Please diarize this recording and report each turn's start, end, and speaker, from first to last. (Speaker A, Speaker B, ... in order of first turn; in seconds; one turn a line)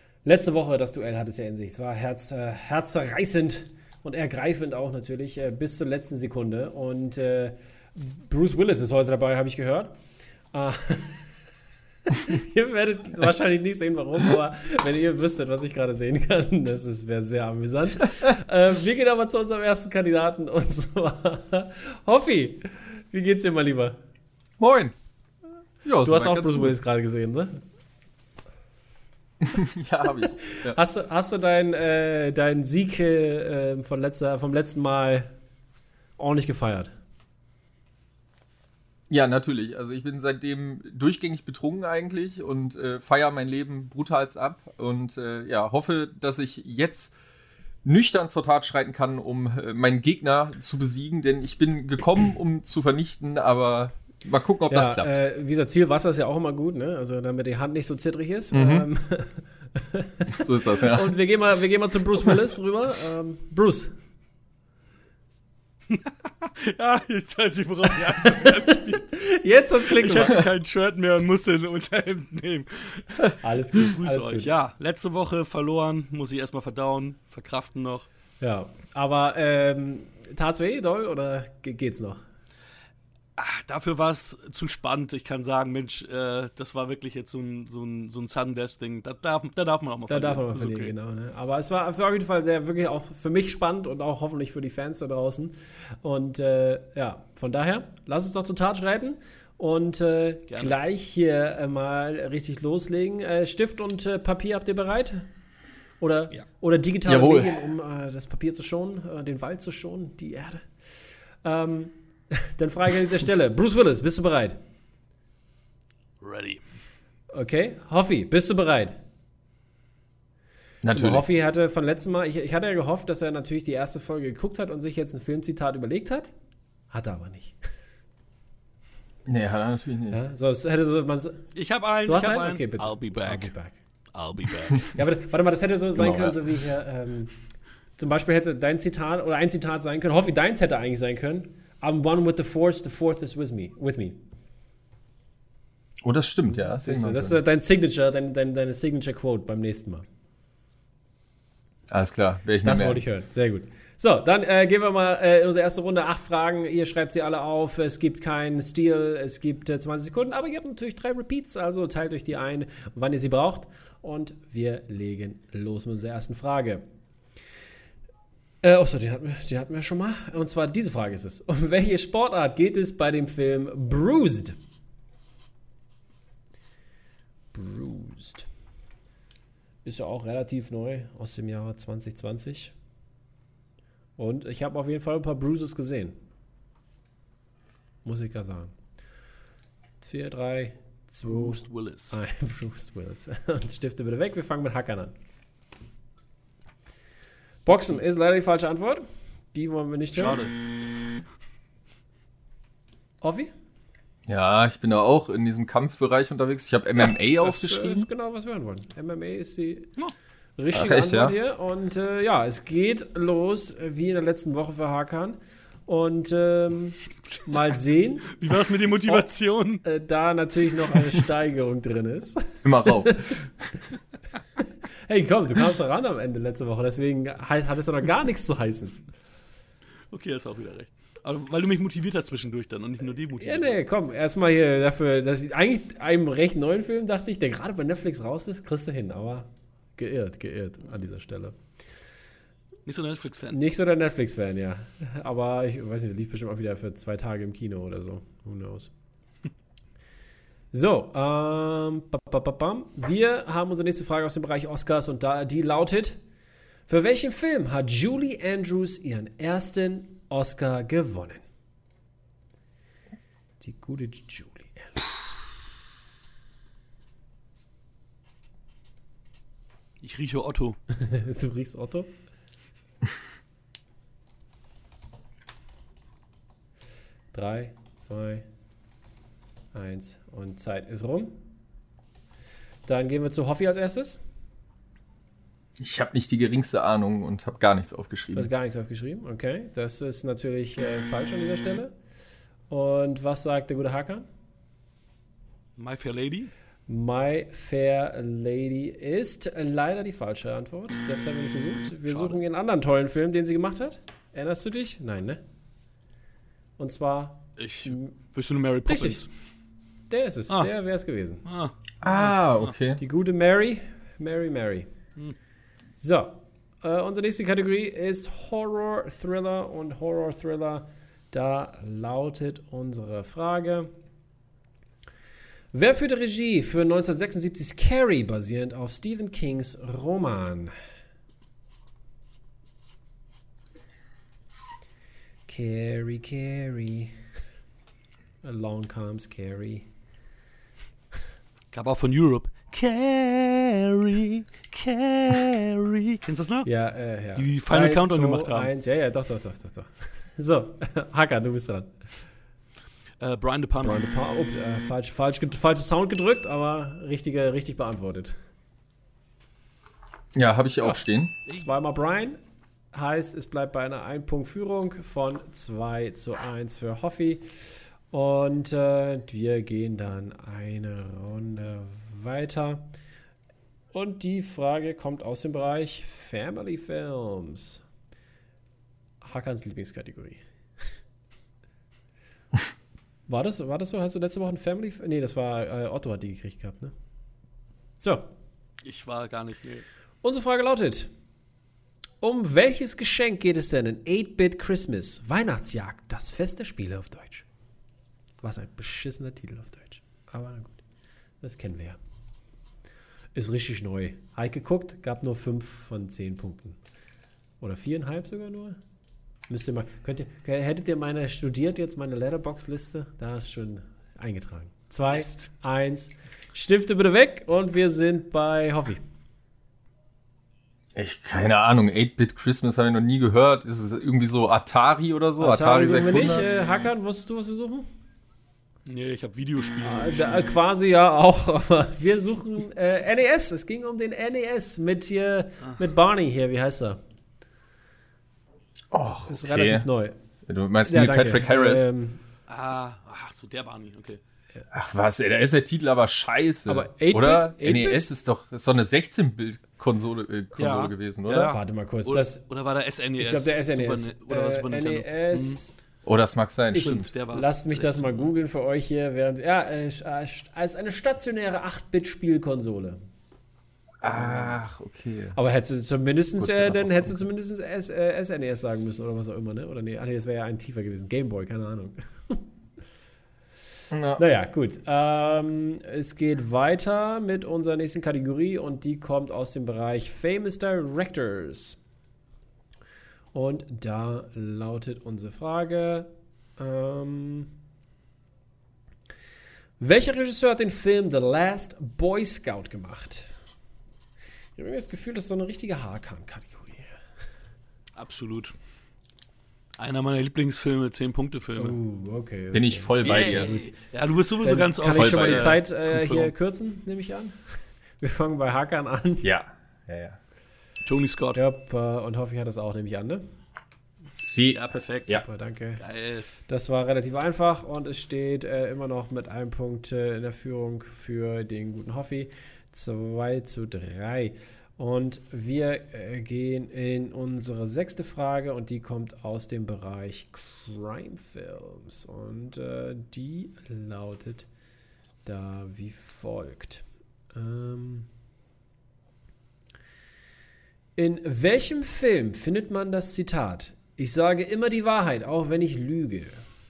Speaker A: 0.2-9.9
Speaker A: 10.5-11.2
Speaker A: 12.1-24.0
Speaker B: 24.6-24.9
Speaker B: 25.8-26.8
Speaker A: 26.0-27.6
Speaker B: 29.4-30.8
Speaker A: 30.4-35.3
Speaker A: 36.2-36.9
Speaker B: 39.1-47.1
Speaker B: 47.8-55.2
Speaker A: 54.7-63.9
Speaker B: 58.5-58.9
Speaker B: 60.3-61.1
Speaker C: 65.9-69.1
Speaker A: 68.0-70.4
Speaker C: 69.8-78.1
Speaker A: 73.4-74.5
Speaker A: 78.4-82.2
Speaker C: 83.4-90.9
Speaker A: 90.1-105.3
Speaker C: 100.5-100.7
Speaker A: 106.0-110.7
Speaker B: 107.1-107.6
Speaker A: 111.4-114.6
Speaker C: 116.2-116.6
Speaker A: 117.3-119.0
Speaker B: 120.8-121.2
Speaker A: 120.9-126.3
Speaker A: 126.9-127.6
Speaker B: 129.3-130.2
Speaker A: 130.1-131.5
Speaker C: 131.6-133.5
Speaker A: 132.1-133.8
Speaker C: 134.1-134.9
Speaker A: 134.9-137.3
Speaker B: 136.0-136.4
Speaker A: 138.0-144.2
Speaker B: 146.0-147.4
Speaker A: 146.5-150.1
Speaker B: 151.9-153.0
Speaker A: 152.6-166.8
Speaker A: 168.6-174.6
Speaker A: 177.5-178.5
Speaker A: 179.8-182.7
Speaker A: 184.2-186.2
Speaker A: 188.0-188.7
Speaker A: 190.0-195.1
Speaker C: 191.3-192.2
Speaker A: 197.7-200.4
Speaker C: 200.2-200.5
Speaker A: 203.2-203.5
Speaker B: 204.3-208.1
Speaker A: 207.4-209.9
Speaker A: 210.6-218.3
Speaker B: 210.7-211.3
Speaker C: 218.3-219.8
Speaker A: 219.8-223.4
Speaker B: 222.7-223.5
Speaker A: 224.6-229.0
Speaker C: 230.1-233.8
Speaker A: 233.4-241.6
Speaker C: 242.9-243.6
Speaker A: 243.5-248.9
Speaker A: 250.7-256.2
Speaker A: 256.9-261.4
Speaker A: 263.6-265.3
Speaker C: 270.0-270.8
Speaker A: 270.9-272.1
Speaker A: 277.3-278.5
Speaker A: 279.7-281.4
Speaker A: 282.9-284.2
Speaker B: 285.8-288.5
Speaker A: 288.4-291.9
Speaker A: 292.7-294.3
Speaker C: 295.8-296.5
Speaker A: 296.9-305.4
Speaker C: 302.1-302.4
Speaker A: 306.8-308.1
Speaker C: 307.6-309.3
Speaker A: 308.9-309.2
Speaker A: 310.1-311.4
Speaker C: 311.4-311.7
Speaker B: 312.0-313.0
Speaker A: 313.0-314.9
Speaker A: 316.0-323.9
Speaker A: 325.7-330.8
Speaker A: 335.5-337.2
Speaker A: 338.4-339.9
Speaker C: 341.7-346.7
Speaker A: 346.6-351.9
Speaker C: 347.4-348.7
Speaker C: 353.2-354.0
Speaker A: 353.8-358.4
Speaker B: 360.4-361.4
Speaker A: 361.5-362.4
Speaker A: 362.9-372.9
Speaker A: 373.9-377.8
Speaker A: 379.2-380.4
Speaker A: 383.3-386.9
Speaker A: 388.0-388.3
Speaker C: 388.8-389.9
Speaker A: 390.2-391.1
Speaker A: 392.2-397.5
Speaker A: 398.4-400.8
Speaker A: 401.4-402.0
Speaker A: 403.4-406.8
Speaker A: 407.6-408.8
Speaker A: 409.5-419.0
Speaker C: 415.1-415.4
Speaker B: 420.9-426.5
Speaker A: 425.4-427.9
Speaker C: 428.9-430.5
Speaker A: 429.8-437.0
Speaker B: 438.9-439.9
Speaker A: 439.3-440.2
Speaker B: 440.5-441.9
Speaker A: 440.9-442.2
Speaker C: 442.5-444.2
Speaker B: 444.7-451.6
Speaker A: 446.7-448.1
Speaker C: 450.6-455.6
Speaker A: 451.5-452.4
Speaker A: 453.2-455.7
Speaker B: 456.1-457.1
Speaker C: 456.7-458.3
Speaker A: 456.7-463.0
Speaker B: 464.0-465.4
Speaker A: 465.4-472.4
Speaker B: 466.4-467.3
Speaker B: 473.9-474.2
Speaker A: 474.2-481.8
Speaker A: 483.3-487.5
Speaker A: 489.8-493.3
Speaker A: 494.6-496.9
Speaker C: 498.0-498.5
Speaker C: 499.8-501.8
Speaker A: 501.6-503.7
Speaker B: 502.5-503.5
Speaker C: 503.0-506.3
Speaker A: 504.4-509.3
Speaker B: 504.9-505.6
Speaker B: 509.2-510.2
Speaker C: 510.9-511.4
Speaker A: 511.4-513.2
Speaker B: 514.1-515.2
Speaker C: 514.6-515.1
Speaker A: 515.1-515.8
Speaker C: 515.8-516.3
Speaker A: 516.5-534.5
Speaker A: 535.2-538.1
Speaker A: 541.0-546.5